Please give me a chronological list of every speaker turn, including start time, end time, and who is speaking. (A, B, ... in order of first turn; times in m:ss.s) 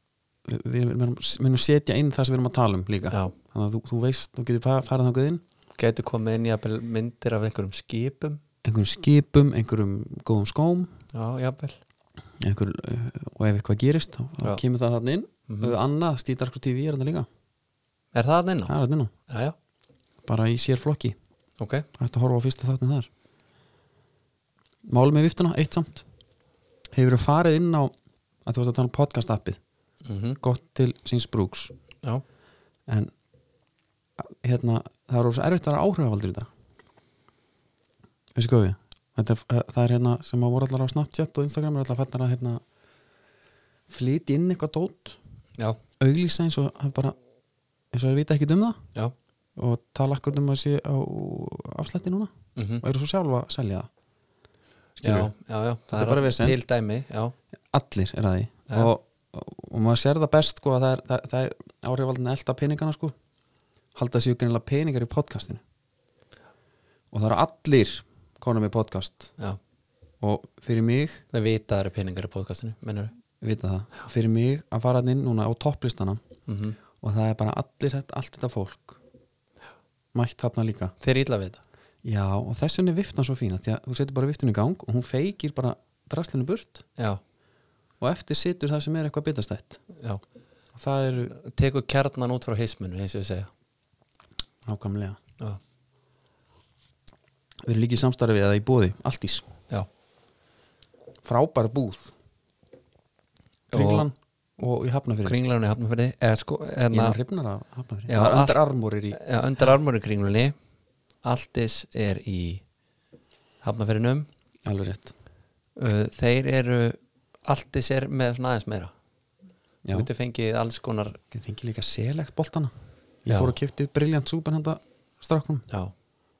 0:00.4-0:05.4 A
0:05.8-0:08.4 B
0:08.6-0:10.9 A
0:11.1-0:11.8 B
0:12.4-0:17.3 A
0:15.5-0:15.7 B
0:18.1-0:18.7 B
0:18.7-0:19.1 A
0:19.3-0:19.5 B
0:20.2-0:21.2 A
0:21.6-0:21.8 B
0:22.0-0:23.1 A
0:24.8-0:26.0 A
0:26.9-0:27.9 A
0:28.4-0:29.6 A
0:30.0-0:30.4 B
0:30.4-0:31.7 A
0:32.9-0:33.1 A
0:34.2-0:36.5 A
0:38.3-0:42.6 A
0:43.9-0:45.2 A
0:46.0-0:47.2 A
0:47.9-0:48.8 A
0:49.6-0:53.9 A
0:52.5-0:52.8 B
0:55.0-0:55.3 A
0:55.0-0:57.3 B
0:55.9-0:56.6 A
0:57.7-1:03.1 A
1:03.9-1:05.6 A
1:07.1-1:09.3 A
1:10.2-1:11.2 A
1:11.3-1:13.1 B
1:13.4-1:16.2 A
1:16.5-1:16.8 B
1:17.0-1:19.0 A
1:20.1-1:20.9 A
1:21.0-1:21.6 B
1:22.0-1:26.8 A
1:28.0-1:29.8 A
1:29.9-1:30.2 B
1:30.7-1:31.3 A
1:31.3-1:33.5 B
1:34.6-1:35.2 A
1:37.6-1:39.5 A
1:41.2-1:42.1 A
1:43.7-1:44.0 B
1:43.7-1:45.4 A
1:45.2-1:47.2 B
1:46.9-1:49.2 A
1:48.1-1:50.5 B
1:51.2-1:52.6 B
1:53.6-1:54.3 B
1:54.6-1:55.1 A
1:55.8-1:58.9 B
1:59.9-2:01.2 B
2:01.3-2:02.7 A
2:03.2-2:05.6 A
2:03.3-2:03.6 B